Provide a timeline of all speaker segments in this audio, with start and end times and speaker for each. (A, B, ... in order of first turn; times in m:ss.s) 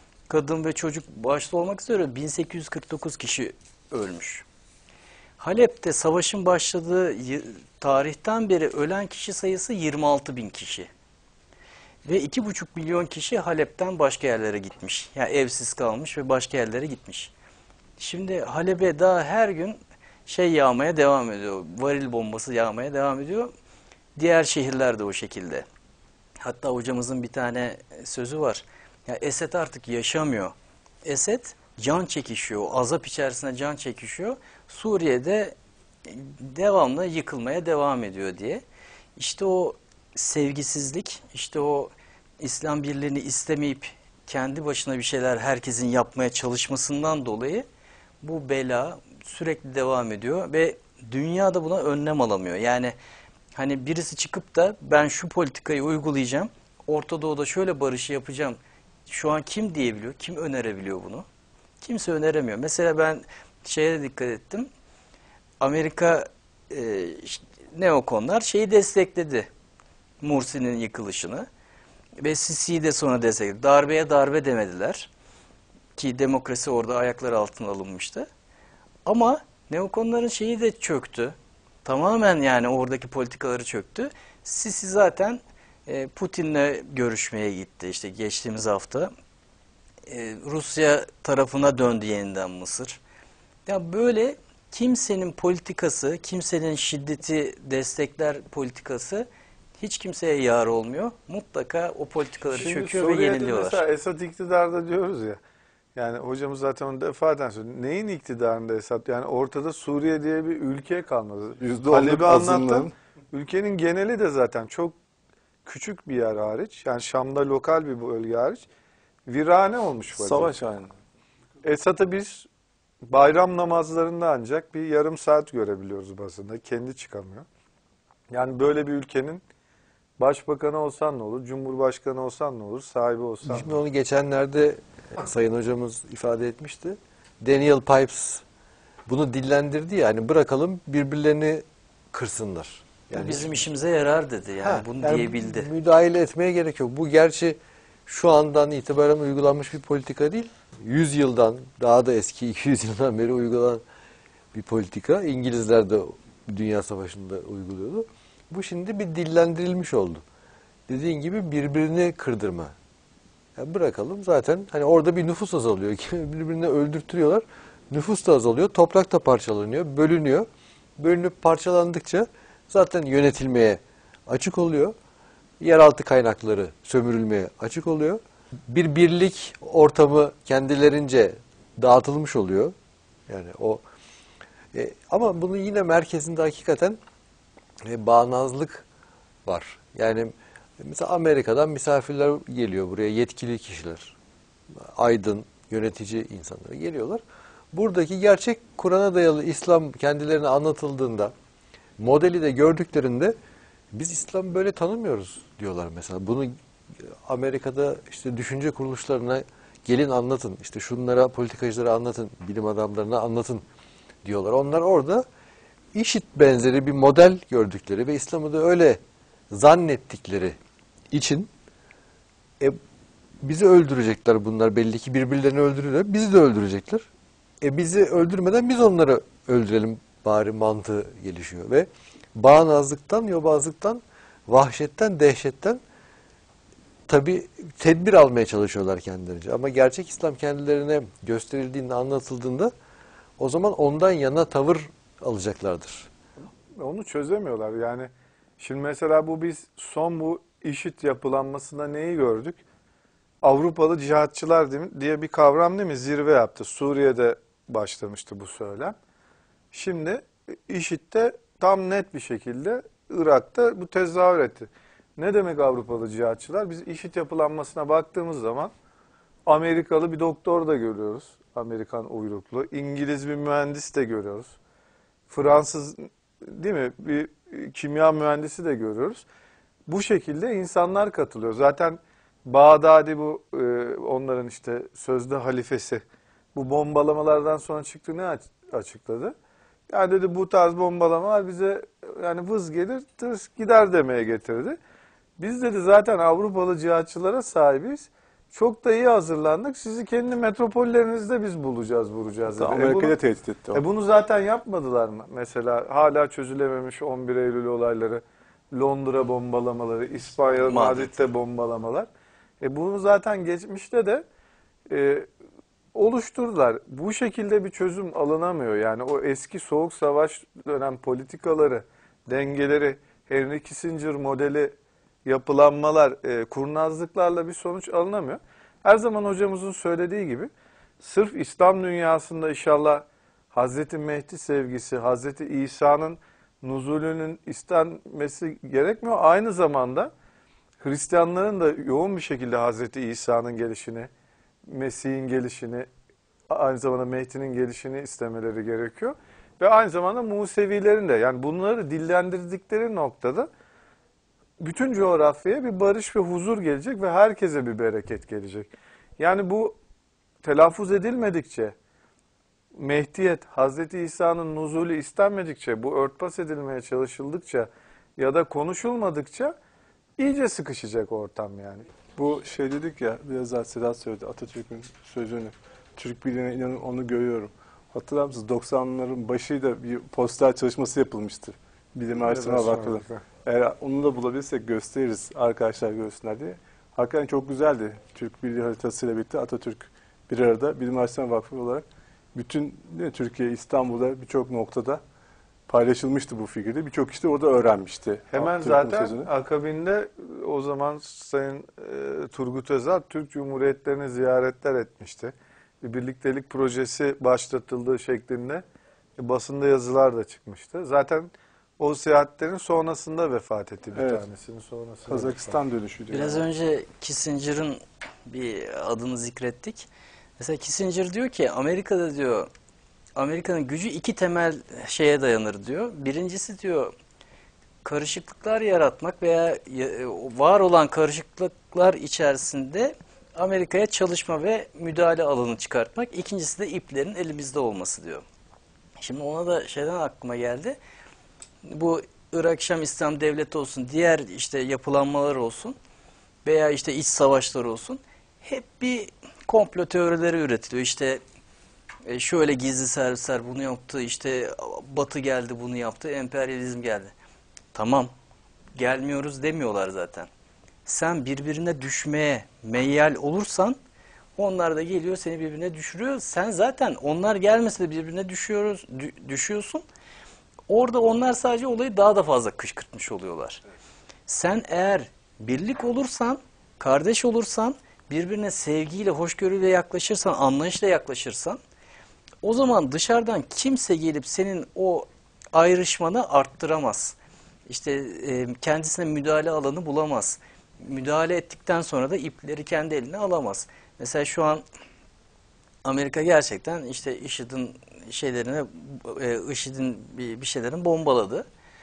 0:00.3-0:04.5 A
0:05.4-0:10.9 A
0:12.0-0:17.3 A
0:18.0-0:23.5 A
0:24.2-0:25.7 A
0:26.4-0:35.6 A
0:36.1-0:38.6 A
0:39.2-0:47.7 A
0:48.2-0:53.0 A
0:53.5-1:01.3 A
1:01.8-1:04.7 A
1:05.6-1:09.5 A
1:10.2-1:11.5 A
1:12.2-1:15.1 A
1:16.0-1:18.3 A
1:19.1-1:29.1 A
1:30.1-1:33.0 A
1:33.7-1:39.3 A
1:39.8-1:43.8 A
1:42.5-1:45.4 B
1:46.0-1:55.0 B
1:51.6-1:52.9 C
1:55.6-1:58.7 B
1:59.3-2:00.5 B
2:00.2-2:00.9 C
2:01.6-2:02.5 B
2:03.1-2:07.5 B
2:08.3-2:09.4 B
2:10.2-2:13.8 B
2:13.4-2:18.4 D
2:19.1-2:23.7 D
2:23.1-2:25.7 A
2:24.6-2:33.8 D
2:34.5-2:40.2 D
2:40.9-2:42.8 D
2:43.6-2:55.0 D
2:55.6-3:02.7 D
3:03.3-3:03.8 D
3:04.7-3:07.0 D
3:07.8-3:08.9 D
3:09.5-3:14.2 D
3:14.8-3:21.3 D
3:22.0-3:23.4 D
3:23.9-3:33.6 D
3:34.2-3:35.2 D
3:35.9-3:39.0 D
3:39.5-3:40.6 D
3:41.1-3:41.5 D
3:43.4-3:47.1 D
3:47.6-3:55.8 D
3:57.1-4:02.7 D
4:03.4-4:06.1 D
4:06.8-4:12.6 B
4:13.4-4:19.0 B
4:19.7-4:28.7 B
4:29.5-4:34.6 B
4:35.3-4:39.3 B
4:39.9-4:49.4 B
4:49.9-4:54.8 B
4:55.4-5:03.2 B
5:02.5-5:03.8 C
5:03.7-5:08.2 B
5:08.7-5:12.1 B
5:10.6-5:11.2 A
5:12.6-5:14.2 B
5:14.9-5:15.3 B
5:15.9-5:40.1 B
5:40.8-5:44.1 B
5:44.7-5:45.9 B
5:46.5-5:53.5 B
5:54.6-5:59.8 B
6:00.4-6:01.8 B
6:02.8-6:09.5 B
6:10.2-6:11.9 B
6:12.2-6:31.8 C
6:22.2-6:23.2 B
6:32.4-6:35.0 C
6:35.7-6:39.3 C
6:38.3-6:48.6 B
6:49.2-6:55.6 B
6:54.0-6:54.3 C
6:55.1-6:56.4 C
6:56.1-7:02.5 A
7:03.2-7:06.9 A
7:07.8-7:18.2 A
7:19.0-7:20.8 A
7:21.6-7:25.8 A
7:26.4-7:31.2 A
7:32.1-7:37.1 A
7:37.7-7:38.1 A
7:38.8-7:40.3 A
7:40.9-7:43.8 A
7:44.4-7:49.8 A
7:50.7-7:53.6 A
7:54.3-8:01.6 A
8:02.4-8:07.2 A
8:07.7-8:14.6 A
8:15.8-8:21.4 A